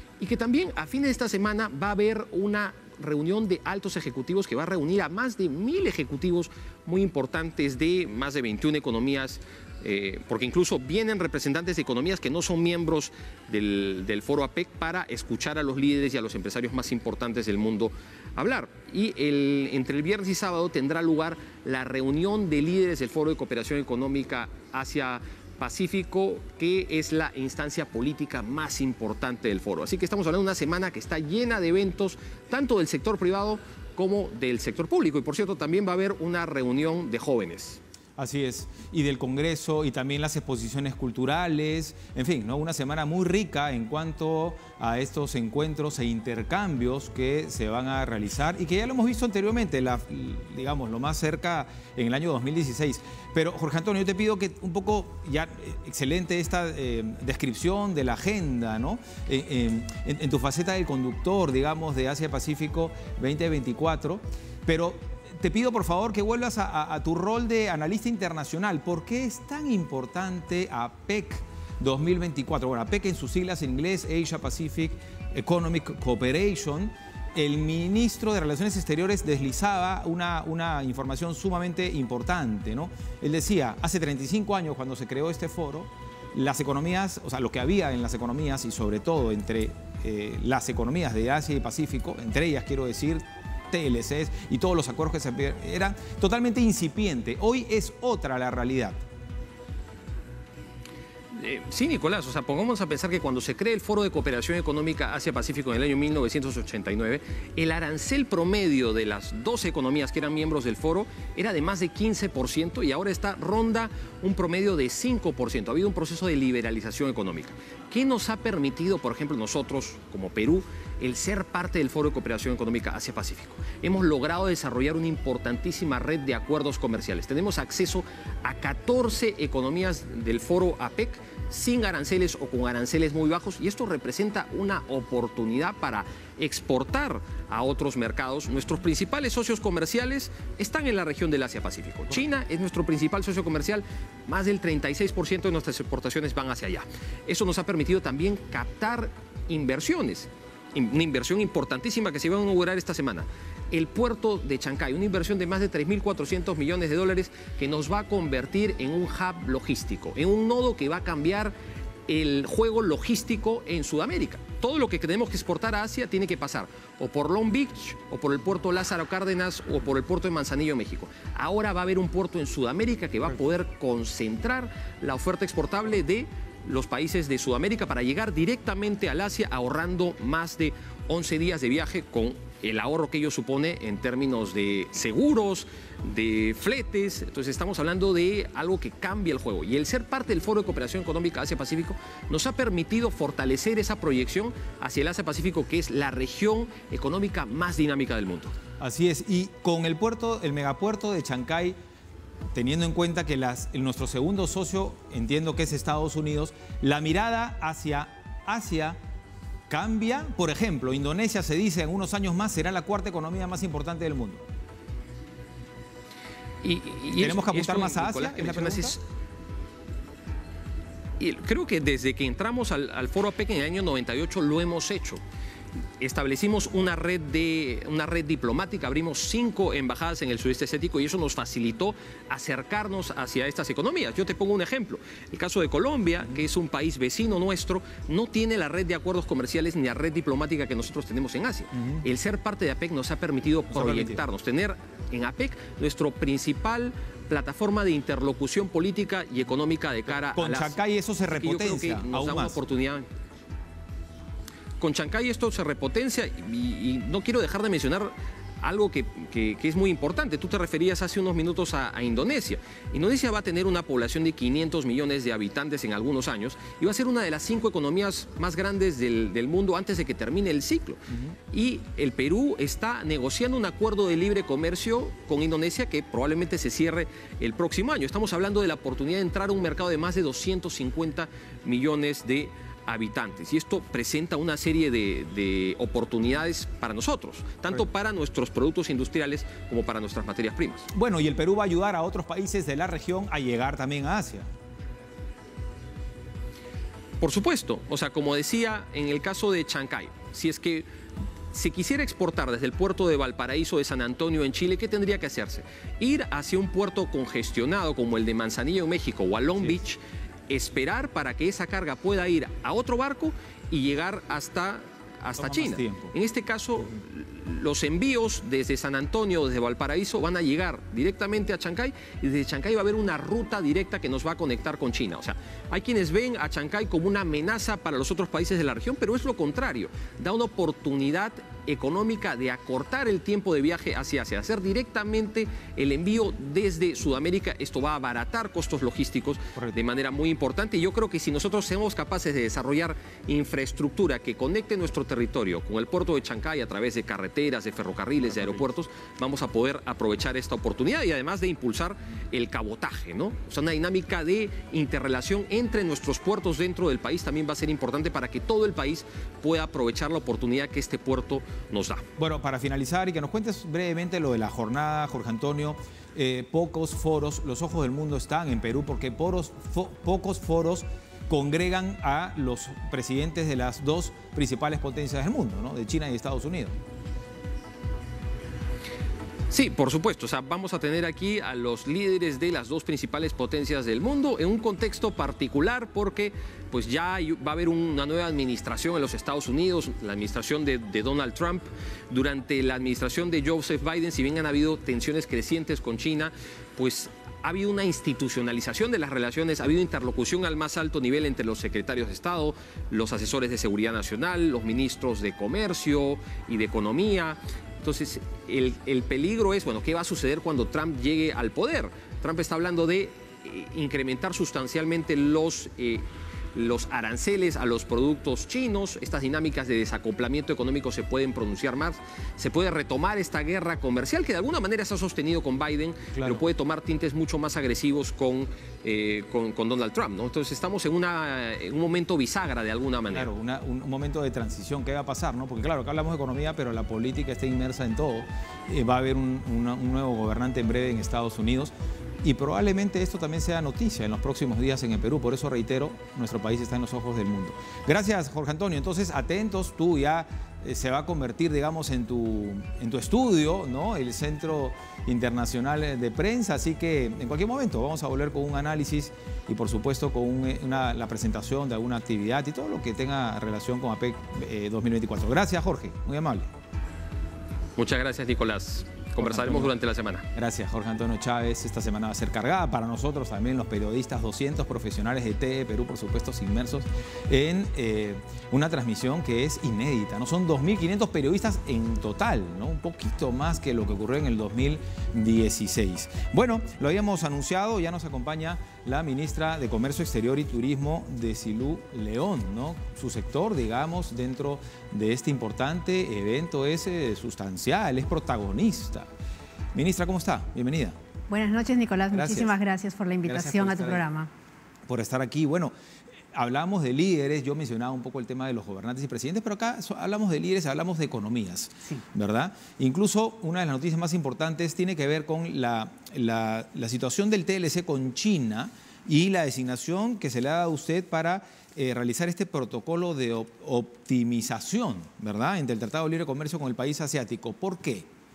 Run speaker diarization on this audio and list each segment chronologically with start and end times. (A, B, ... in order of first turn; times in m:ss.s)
0:00.2-0:37.8 A
0:38.2-1:39.0 B
1:41.3-2:41.5 A
2:42.1-3:18.5 A
3:18.8-3:21.8 B
3:22.5-3:29.0 B
3:29.7-3:34.4 B
3:36.6-3:39.0 A
3:37.2-3:39.0 B
3:41.2-3:45.2 A
3:46.0-4:10.8 A
4:01.7-4:02.0 B
4:03.7-4:04.2 B
4:10.1-4:12.6 B
4:11.4-4:13.1 A
4:14.8-4:31.0 A
4:31.1-4:31.4 B
4:31.5-4:50.9 A
4:50.9-4:54.5 B
4:57.2-5:00.8 A
5:01.5-6:02.0 A
5:15.4-5:16.1 B
5:48.2-5:48.6 B
6:02.2-6:16.8 B
6:19.5-6:56.0 A
6:56.5-7:13.3 A
7:06.1-7:06.4 B
7:13.1-7:46.5 B
7:47.8-7:50.2 A
7:49.2-7:49.7 B
7:50.3-8:19.1 B
8:19.7-8:21.0 B
8:21.3-8:24.3 C
8:22.1-8:22.5 B
8:23.2-8:24.0 B
8:24.9-8:25.7 B
8:26.3-8:48.1 B